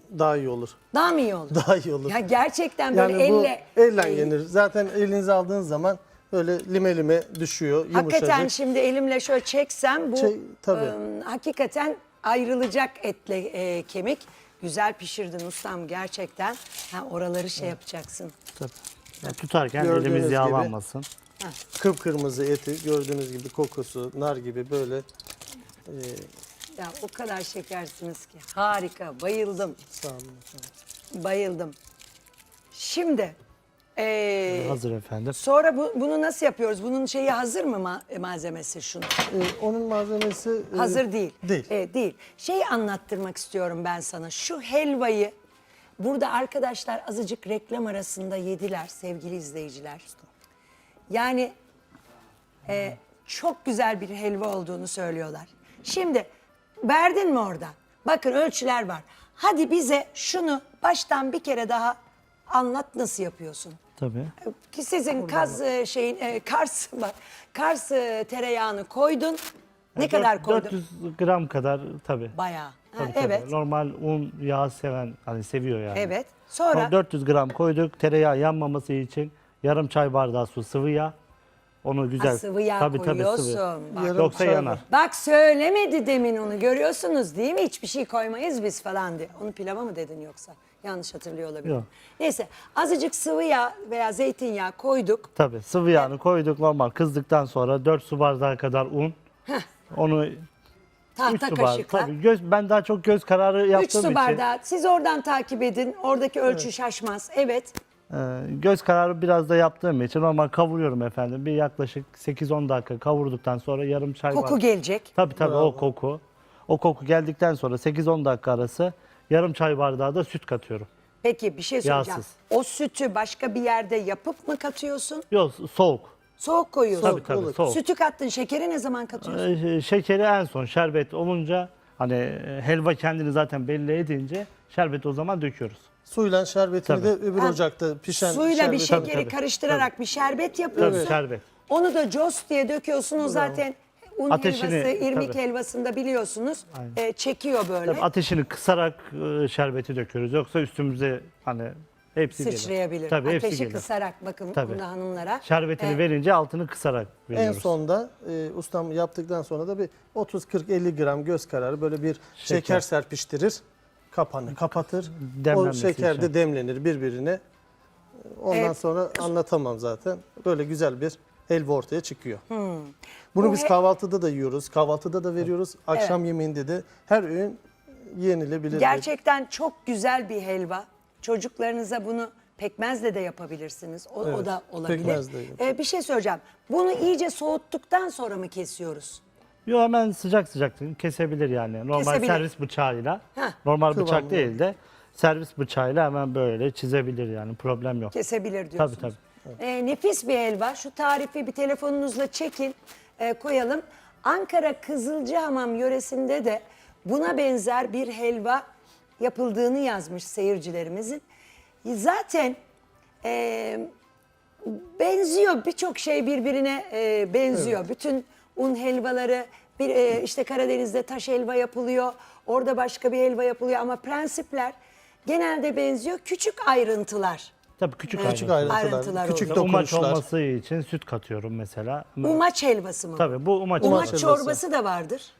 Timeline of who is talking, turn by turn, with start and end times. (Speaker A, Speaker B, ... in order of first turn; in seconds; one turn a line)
Speaker A: 0.1-0.8
Speaker B: 0.9-4.3
Speaker A: 1.5-2.2
Speaker A: 2.9-8.5
Speaker B: 7.9-18.3
Speaker A: 10.1-10.9
Speaker C: 18.6-21.1
Speaker A: 19.8-20.7
Speaker A: 21.7-25.1
Speaker A: 25.9-26.3
Speaker B: 26.8-29.8
Speaker A: 29.9-30.7
Speaker B: 31.1-31.8
Speaker B: 32.7-33.4
Speaker B: 34.0-34.8
Speaker C: 34.5-35.4
Speaker B: 35.3-39.2
Speaker A: 39.3-41.7
Speaker B: 40.7-45.3
Speaker B: 46.0-50.1
Speaker B: 51.1-51.5
Speaker B: 52.6-56.3
Speaker B: 56.8-62.0
Speaker B: 62.5-63.8
Speaker C: 64.0-64.3
Speaker B: 64.4-69.4
Speaker A: 65.3-65.6
Speaker B: 70.0-70.8
Speaker C: 70.0-72.3
Speaker B: 72.3-73.5
Speaker C: 73.0-76.1
Speaker B: 75.9-76.9
Speaker C: 76.7-81.1
Speaker C: 81.8-84.8
Speaker B: 82.2-95.3
Speaker A: 83.9-84.8
Speaker C: 95.3-99.2
Speaker C: 99.9-100.5
Speaker B: 101.2-102.1
Speaker C: 101.2-104.4
Speaker B: 103.7-107.7
Speaker C: 108.1-114.6
Speaker B: 114.3-115.1
Speaker C: 115.1-120.9
Speaker A: 115.3-115.9
Speaker B: 121.2-125.2
Speaker C: 121.8-122.3
Speaker C: 125.3-126.2
Speaker B: 126.4-129.5
Speaker A: 127.0-127.6
Speaker C: 127.0-127.8
Speaker C: 129.2-135.9
Speaker A: 136.1-139.1
Speaker C: 136.8-137.1
Speaker B: 138.1-148.1
Speaker C: 138.8-139.9
Speaker A: 140.7-141.2
Speaker C: 140.8-141.4
Speaker A: 143.2-143.6
Speaker C: 144.3-145.4
Speaker C: 147.8-153.8
Speaker B: 152.3-156.0
Speaker C: 154.5-154.8
Speaker C: 155.4-157.7
Speaker A: 157.3-167.4
Speaker C: 162.4-162.8
Speaker C: 165.1-166.3
Speaker A: 168.2-172.4
Speaker B: 168.5-169.3
Speaker B: 172.5-173.7
Speaker A: 173.3-179.1
Speaker B: 175.9-176.2
Speaker B: 178.7-189.2
Speaker A: 184.2-185.6
Speaker C: 189.7-198.1
Speaker B: 191.9-192.4
Speaker A: 193.9-194.6
Speaker B: 198.1-208.6
Speaker C: 198.8-199.2
Speaker B: 209.2-211.2
Speaker B: 211.8-212.6
Speaker B: 213.2-213.9
Speaker B: 214.6-224.7
Speaker A: 217.5-217.8
Speaker B: 225.2-227.5
Speaker C: 227.8-232.4
Speaker B: 228.1-229.7
Speaker A: 228.2-230.2
Speaker B: 232.2-235.3
Speaker C: 233.1-234.2
Speaker A: 233.8-234.6